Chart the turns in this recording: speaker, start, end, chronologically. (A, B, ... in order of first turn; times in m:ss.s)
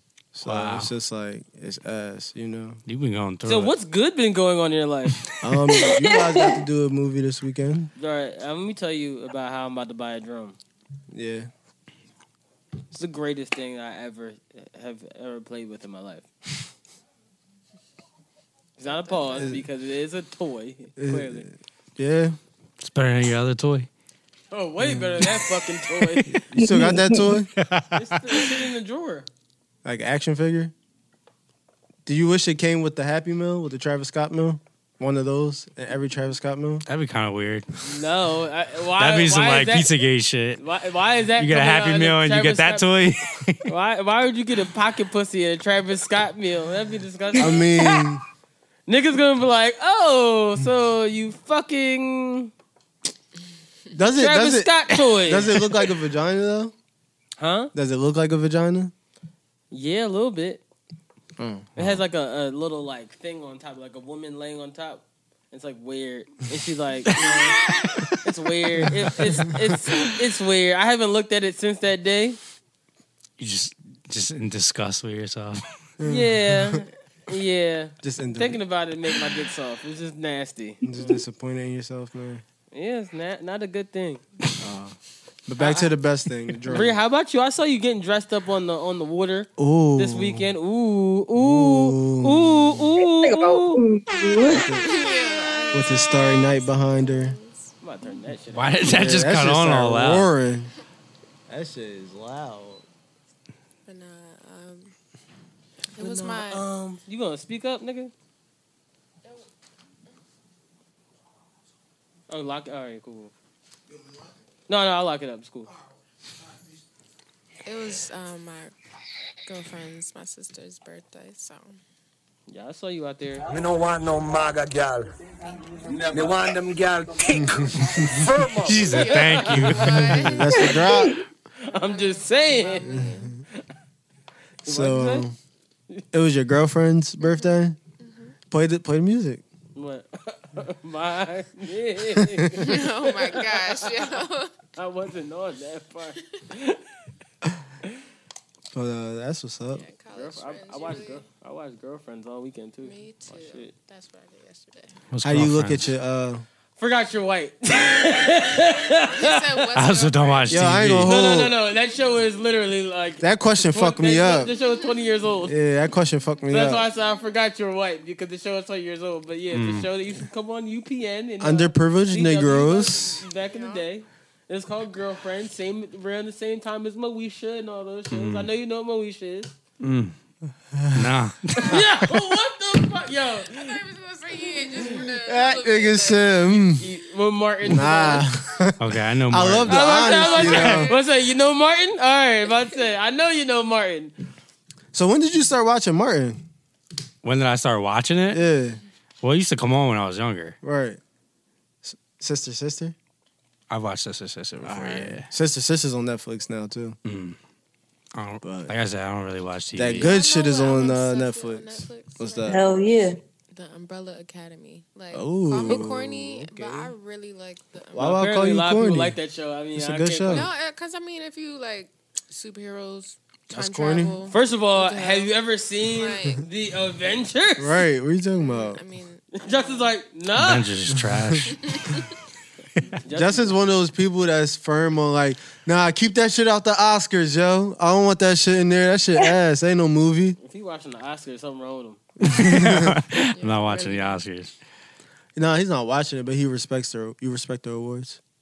0:00.3-0:02.8 A
0:00.4-0:00.9 B
0:02.9-0:03.7 B
0:03.4-0:05.2 C
0:05.4-0:07.9 A
0:05.7-0:06.6 D
0:08.0-0:10.6 C
0:11.1-0:11.5 A
0:12.9-0:16.2 C
0:18.8-0:21.5 C
0:18.8-0:19.5 E
0:19.4-0:19.6 A
0:21.0-0:22.4 A
0:22.8-0:23.9 B
0:24.5-0:26.4 C
0:24.8-0:25.3 A
0:26.3-0:27.5 A
0:26.5-0:27.4 D
0:27.6-0:28.2 B
0:27.9-0:29.3 C
0:29.8-0:30.7 A
0:32.0-0:36.8 A
0:36.9-0:37.7 B
0:37.8-0:39.9 C
0:39.0-0:40.6 B
0:40.6-0:42.9 C
0:41.4-0:43.6 B
0:43.7-0:47.6 C
0:47.4-0:48.2 A
0:48.9-0:52.5 C
0:53.9-0:56.7 A
0:54.2-0:55.6 C
0:57.4-0:57.7 C
0:57.7-0:58.9 A
0:59.7-1:00.6 C
1:01.4-1:01.7 A
1:01.8-1:02.0 B
1:01.8-1:07.5 C
1:07.2-1:08.0 B
1:08.2-1:12.4 C
1:13.4-1:15.6 B
1:16.0-1:16.8 A
1:16.0-1:21.2 C
1:18.0-1:18.6 A
1:20.8-1:22.4 A
1:22.7-1:24.2 C
1:24.6-1:27.0 A
1:25.6-1:25.9 C
1:26.7-1:33.8 C
1:29.6-1:30.5 A
1:31.3-1:32.8 A
1:33.0-1:34.7 D
1:34.6-1:34.9 A
1:34.8-1:37.7 E
1:35.7-1:37.3 A
1:37.8-1:38.7 C
1:38.5-1:40.3 B
1:38.8-1:40.7 A
1:41.5-1:42.8 A
1:43.8-1:44.9 E
1:45.9-1:46.6 E
1:46.0-1:48.1 C
1:52.3-1:53.3 C
1:54.7-1:55.7 C
1:57.6-1:58.7 E
1:59.4-2:01.8 E
2:02.5-2:03.5 C
2:03.5-2:05.0 F
2:06.1-2:06.6 F
2:07.4-2:08.3 A
2:08.1-2:09.0 F
2:08.6-2:10.4 B
2:08.9-2:10.9 E
2:09.0-2:09.8 C
2:10.1-2:11.1 A
2:10.5-2:11.2 D
2:11.6-2:13.0 C
2:11.8-2:13.4 E
2:12.8-2:13.4 A
2:14.6-2:15.4 A
2:14.6-2:15.3 C
2:16.1-2:17.8 A
2:17.2-2:18.4 E
2:18.5-2:19.4 A
2:19.8-2:24.2 C
2:22.6-2:24.5 E
2:24.8-2:26.8 C
2:28.7-2:29.8 A
2:29.7-2:31.2 E
2:30.1-2:33.7 C
2:32.8-2:34.9 E
2:35.1-2:35.9 B
2:35.2-2:36.4 A
2:36.8-2:39.7 C
2:38.3-2:40.8 E
2:39.7-2:41.2 B
2:40.5-2:41.5 A
2:41.0-2:45.5 C
2:41.4-2:42.1 E
2:43.2-2:44.5 A
2:44.6-2:44.9 E
2:45.4-2:46.8 A
2:46.5-2:59.5 C
2:46.8-2:47.4 E
2:49.5-2:49.9 B
2:51.4-2:53.2 A
2:53.1-2:53.8 E
2:58.1-2:58.5 B
2:59.8-3:00.1 B
3:00.7-3:01.1 A
3:00.9-3:01.8 B
3:01.7-3:03.8 C
3:03.5-3:06.4 E
3:04.7-3:05.0 C
3:05.2-3:06.8 A
3:06.8-3:08.2 C
3:07.6-3:10.9 A
3:08.8-3:09.9 B
3:09.7-3:14.1 C
3:09.8-3:11.0 E
3:10.5-3:10.8 B
3:14.9-3:16.4 A
3:17.2-3:18.4 B
3:18.3-3:18.8 A
3:19.2-3:20.6 B
3:20.6-3:21.0 A
3:21.8-3:22.9 A
3:23.7-3:25.3 B
3:24.6-3:27.0 A
3:27.0-3:27.4 B
3:28.1-3:30.1 B
3:28.4-3:28.7 A
3:29.8-3:32.6 A
3:30.0-3:32.6 E
3:32.4-3:33.2 D
3:33.5-3:38.2 E
3:35.1-3:36.9 A
3:37.9-3:39.2 A
3:38.0-3:40.5 C
3:39.7-3:40.5 A
3:40.3-3:46.4 E
3:43.5-3:44.2 A
3:44.3-3:47.8 C
3:47.6-3:48.8 A
3:48.4-3:49.9 E
3:49.4-3:50.6 C
3:50.3-3:51.8 B
3:51.0-3:51.4 A
3:51.5-3:52.1 E
3:52.9-3:53.5 C
3:53.1-4:00.4 A
4:00.4-4:02.0 C
4:02.2-4:04.5 B
4:02.2-4:03.0 A
4:03.3-4:04.2 E
4:05.4-4:08.2 A